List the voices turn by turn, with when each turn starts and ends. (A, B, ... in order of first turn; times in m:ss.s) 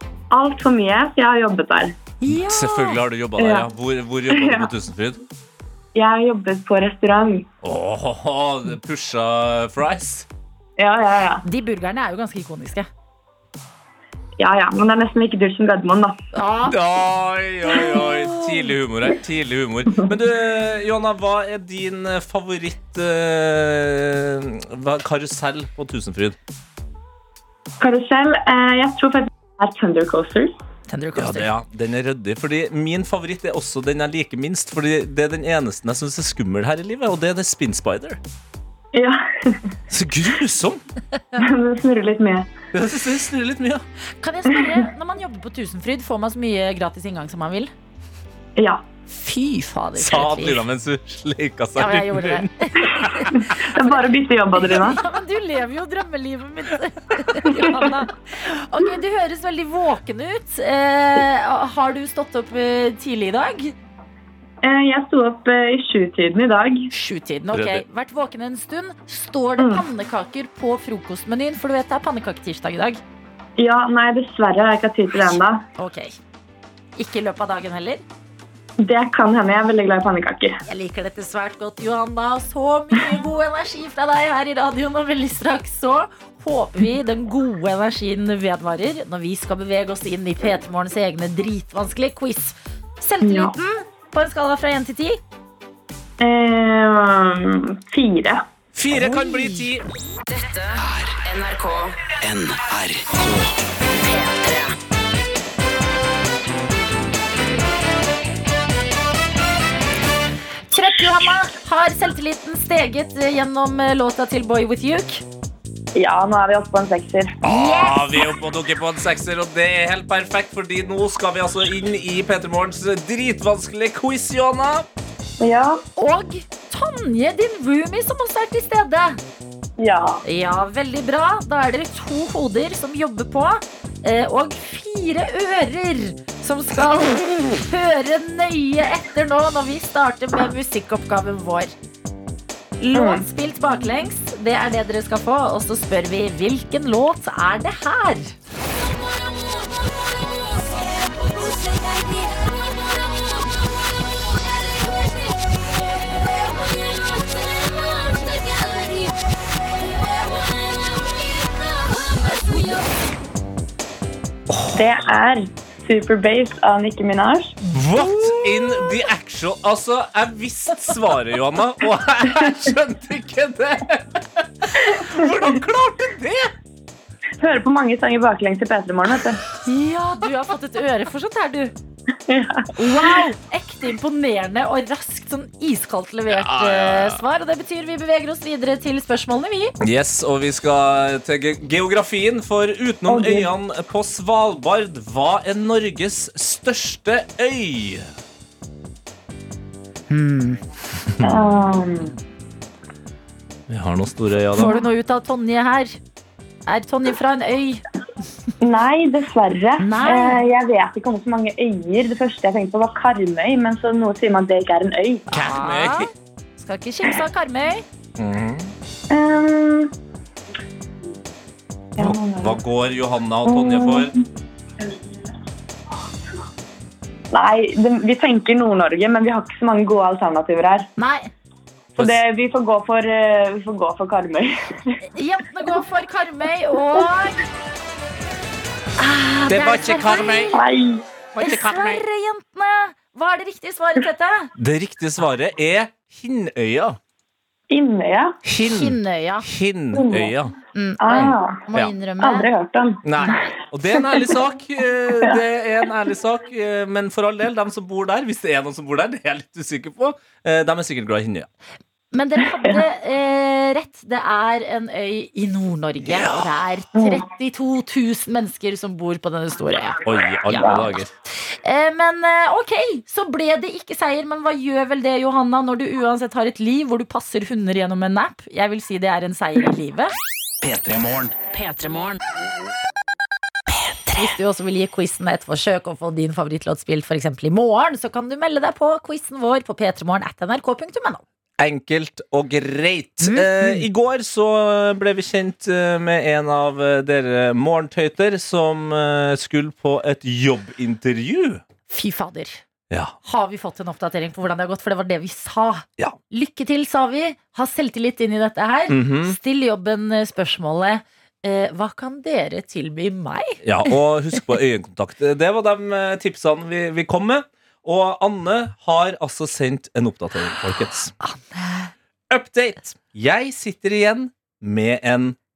0:00.3-0:02.0 A
0:02.2-0:03.0 B
0:02.3-0:05.2 C
0:03.4-0:03.7 A
0:04.3-0:04.7 A
0:05.9-0:07.5 A
0:07.6-0:10.3 C
0:10.8-0:11.4 A
0:11.4-0:12.9 B
0:14.4-0:16.2 A
0:16.3-0:16.8 B
0:16.7-0:26.4 C
0:17.9-0:18.7 B
0:27.8-0:30.5 A
0:30.9-0:31.5 B
0:31.2-0:38.2 C
0:38.9-0:39.6 A
0:39.9-0:40.8 C
0:41.4-0:42.5 A
0:42.7-0:43.8 C
0:44.2-0:47.7 B
0:48.6-0:48.8 A
0:49.1-0:50.6 B
0:50.0-0:53.3 C
0:51.8-0:53.5 B
0:53.3-0:55.0 A
0:54.6-1:03.7 B
1:04.6-1:06.9 A
1:06.9-1:13.0 B
1:07.5-1:07.8 C
1:09.6-1:09.8 A
1:13.6-1:15.6 A
1:15.1-1:16.2 B
1:17.0-1:18.0 B
1:18.8-1:20.6 A
1:20.6-1:35.2 B
1:33.2-1:33.5 A
1:36.2-1:38.4 A
1:38.7-1:39.8 C
1:38.9-1:39.7 B
1:40.3-1:42.1 D
1:40.8-1:41.2 E
1:42.2-1:43.6 E
1:44.0-1:44.8 D
1:50.7-1:55.2 B
1:55.9-1:57.4 A
1:57.4-2:04.8 C
1:57.4-1:58.1 B
2:05.4-2:05.8 A
2:06.0-2:09.2 B
2:09.8-2:10.2 A
2:10.2-2:21.7 B
2:22.8-2:28.3 B
2:22.9-2:23.2 A
2:42.4-2:42.8 B
2:44.5-2:44.8 C
2:44.7-2:47.6 A
2:47.7-2:56.5 C
2:48.0-2:49.0 B
2:57.4-2:59.4 A
2:59.6-3:01.7 B
3:02.3-3:03.2 A
3:02.7-3:09.7 B
3:06.3-3:07.2 C
3:09.8-3:18.0 C
3:13.1-3:13.5 A
3:20.1-3:20.6 B
3:21.2-3:22.2 A
3:23.7-3:24.8 C
3:24.6-3:26.0 B
3:26.7-3:27.8 B
3:28.6-3:35.3 A
3:29.8-3:30.4 B
3:35.3-3:37.8 B
3:35.3-3:36.1 C
3:38.2-3:38.7 C
3:39.1-3:39.9 A
3:42.0-3:42.6 A
3:42.0-3:44.1 C
3:43.4-3:44.2 A
3:47.3-3:50.9 A
3:51.0-3:51.3 B
3:52.0-3:55.0 A
3:55.1-3:57.4 B
3:59.0-4:00.6 B
3:59.5-4:00.5 C
4:00.5-4:01.0 A
4:01.3-4:02.0 C
4:01.4-4:04.5 B
4:04.6-4:07.0 C
4:07.7-4:08.4 A
4:08.4-4:10.5 C
4:08.6-4:09.4 B
4:09.9-4:10.3 A
4:10.7-4:12.5 B
4:11.0-4:11.6 A
4:11.1-4:11.9 C
4:12.2-4:13.0 A
4:13.0-4:21.5 C
4:13.9-4:14.3 A
4:22.1-4:30.8 B
4:22.6-4:22.8 A
4:26.1-4:26.4 C
4:26.9-4:27.2 A
4:30.0-4:31.1 C
4:30.6-4:30.9 A
4:31.5-4:40.1 B
4:40.6-4:41.5 E
4:41.7-4:42.0 B
4:43.8-4:51.2 B
4:51.6-5:01.6 C
4:53.2-4:53.8 B
5:01.9-5:02.6 B
5:02.9-5:03.1 C
5:03.2-5:13.6 B
5:08.9-5:09.4 C
5:13.6-5:21.1 C
5:21.2-5:21.9 B
5:22.3-5:25.4 C